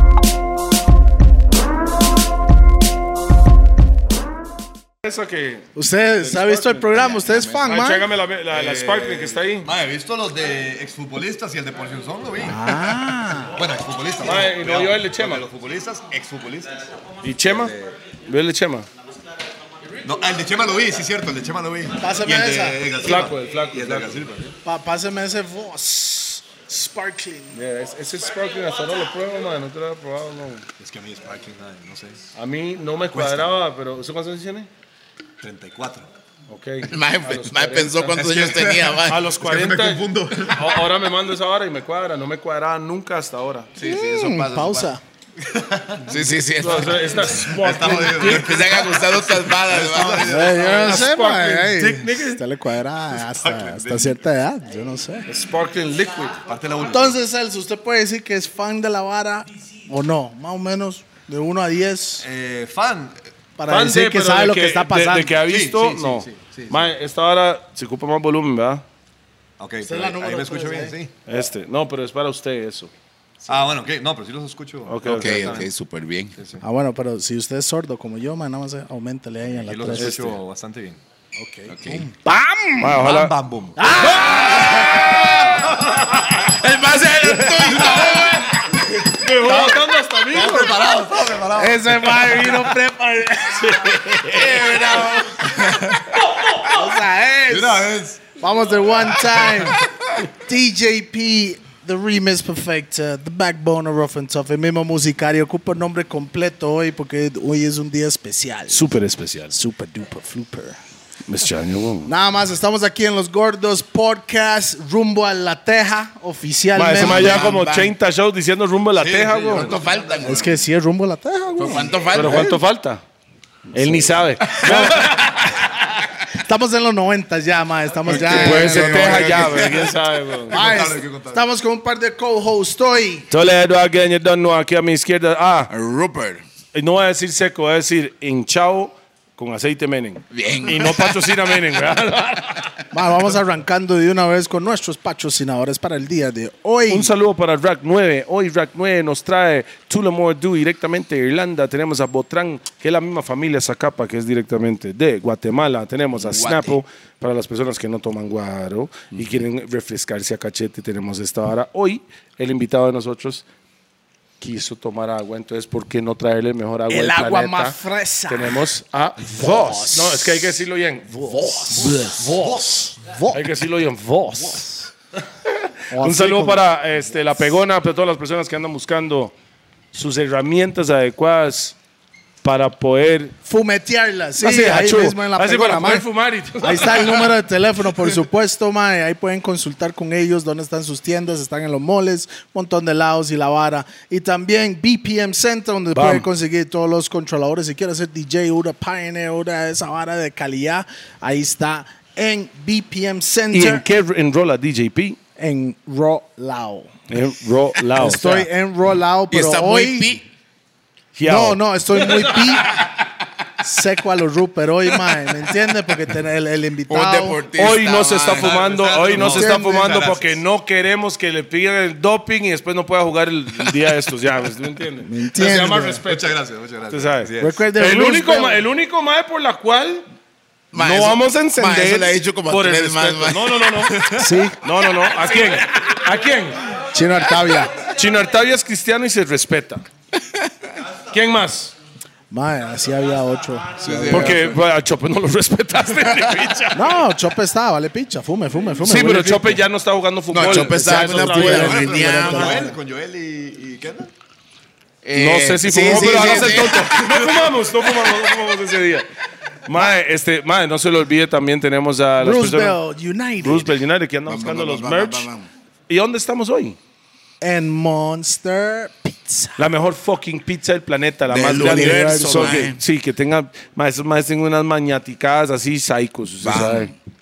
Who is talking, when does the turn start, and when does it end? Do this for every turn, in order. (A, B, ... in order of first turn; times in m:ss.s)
0:05.0-0:05.7 A
0:05.8-0:08.1 B
0:06.2-0:07.1 A
0:07.0-0:07.6 C
0:07.6-0:09.7 A
0:08.5-0:13.0 D
0:12.5-0:13.6 B
0:13.5-0:16.9 D
0:14.2-0:15.4 A
0:17.2-0:17.7 A
0:17.4-0:18.0 D
0:18.3-0:18.9 A
0:20.0-0:24.5 D
0:22.0-0:22.9 B
0:23.0-0:24.3 A
0:24.6-0:27.6 B
0:27.5-0:30.7 A
0:30.8-0:32.2 D
0:32.4-0:34.7 A
0:33.1-0:33.6 D
0:35.4-0:36.1 D
0:36.5-0:38.4 A
0:36.9-0:39.2 C
0:38.2-0:40.9 D
0:39.1-0:43.7 A
0:43.8-0:44.9 C
0:43.8-0:45.0 B
0:45.4-0:46.2 D
0:46.1-0:47.2 C
0:46.6-0:48.6 A
0:47.2-0:51.1 D
0:48.1-0:50.3 C
0:50.2-0:55.3 B
0:50.5-0:52.4 A
0:53.1-0:54.2 D
0:55.3-0:56.4 A
0:56.4-0:57.2 D
0:56.8-1:02.3 B
1:02.2-1:03.2 D
1:03.6-1:05.3 B
1:03.7-1:08.8 A
1:05.4-1:06.9 D
1:09.6-1:11.1 D
1:09.8-1:10.9 B
1:11.3-1:12.9 A
1:13.4-1:15.7 D
1:14.9-1:15.6 A
1:15.1-1:16.4 C
1:16.4-1:16.6 D
1:16.6-1:20.3 B
1:19.5-1:21.0 D
1:20.0-1:20.3 A
1:21.4-1:23.1 B
1:21.7-1:22.1 C
1:22.8-1:23.4 A
1:23.0-1:25.6 D
1:23.8-1:25.3 B
1:24.3-1:25.0 A
1:24.8-1:25.7 C
1:26.0-1:26.3 A
1:26.3-1:28.5 C
1:27.2-1:28.3 A
1:29.0-1:30.8 A
1:29.2-1:32.4 D
1:31.6-1:34.2 B
1:33.6-1:34.9 A
1:34.2-1:35.6 C
1:35.4-1:36.1 D
1:36.6-1:48.9 B
1:37.5-1:38.2 D
1:48.7-1:49.5 A
1:49.5-1:50.8 B
1:51.3-1:52.1 A
1:52.1-1:57.4 B
1:56.8-1:59.7 A
1:56.9-1:57.9 C
1:59.0-2:00.4 D
1:59.5-2:00.6 C
2:00.2-2:02.6 B
2:01.6-2:02.6 C
2:02.1-2:03.0 A
2:03.7-2:05.4 B
2:03.7-2:05.5 A
2:06.2-2:09.9 B
2:08.1-2:09.8 C
2:08.1-2:09.9 D
2:08.2-2:10.6 A
2:10.5-2:11.5 D
2:10.5-2:13.3 B
2:13.3-2:15.7 A
2:15.7-2:16.4 C
2:16.7-2:22.8 A
2:20.3-2:21.5 C
2:22.9-2:27.1 B
2:26.9-2:43.4 A
2:36.2-2:36.8 C
2:44.4-2:47.8 A
2:46.9-2:48.6 B
2:48.3-2:52.6 A
2:49.2-2:50.4 B
2:51.1-2:53.6 B
2:53.3-2:54.7 A
2:54.4-2:54.9 B
2:55.9-2:56.6 B
2:56.0-2:59.3 A
2:59.9-3:01.8 A
3:02.4-3:03.4 A
3:03.4-3:06.0 B
3:04.4-3:07.4 A
3:06.6-3:23.8 B
3:16.0-3:16.3 A
3:23.5-3:25.2 A
3:25.4-3:26.9 B
3:27.1-3:28.5 A
3:28.0-3:30.2 B
3:29.3-3:30.3 C
3:31.2-3:32.9 A
3:31.2-3:32.9 B
3:33.6-3:37.4 B
3:36.9-3:38.7 C
3:37.6-3:46.3 A
3:38.3-3:40.4 D
3:39.2-3:40.0 B
3:45.0-3:46.0 B
3:46.1-3:47.6 D
3:46.9-3:50.1 A
3:47.4-3:48.6 B
3:50.7-3:53.7 C
3:50.7-3:54.0 A
3:53.9-3:54.5 D
3:54.1-3:54.6 B
3:54.6-3:56.8 A
3:56.9-3:57.8 B
3:57.8-3:59.8 A
4:00.2-4:00.5 C
4:01.1-4:01.7 A
4:02.3-4:04.4 B
4:03.8-4:04.3 D
4:03.8-4:04.6 C
4:04.1-4:07.0 A
4:06.7-4:09.6 B
4:08.8-4:12.2 A
4:10.3-4:12.7 C
4:10.4-4:12.8 B
4:12.2-4:14.1 D
4:15.0-4:17.4 C
4:15.2-4:19.1 A
4:15.7-4:16.8 B
4:19.7-4:22.8 A
4:22.2-4:23.7 B
4:23.4-4:25.3 A
4:24.3-4:25.5 C
4:25.9-4:26.8 A
4:27.4-4:29.6 B
4:29.6-4:36.9 A
4:31.3-4:32.8 C
4:31.5-4:32.7 B
4:36.4-4:36.9 C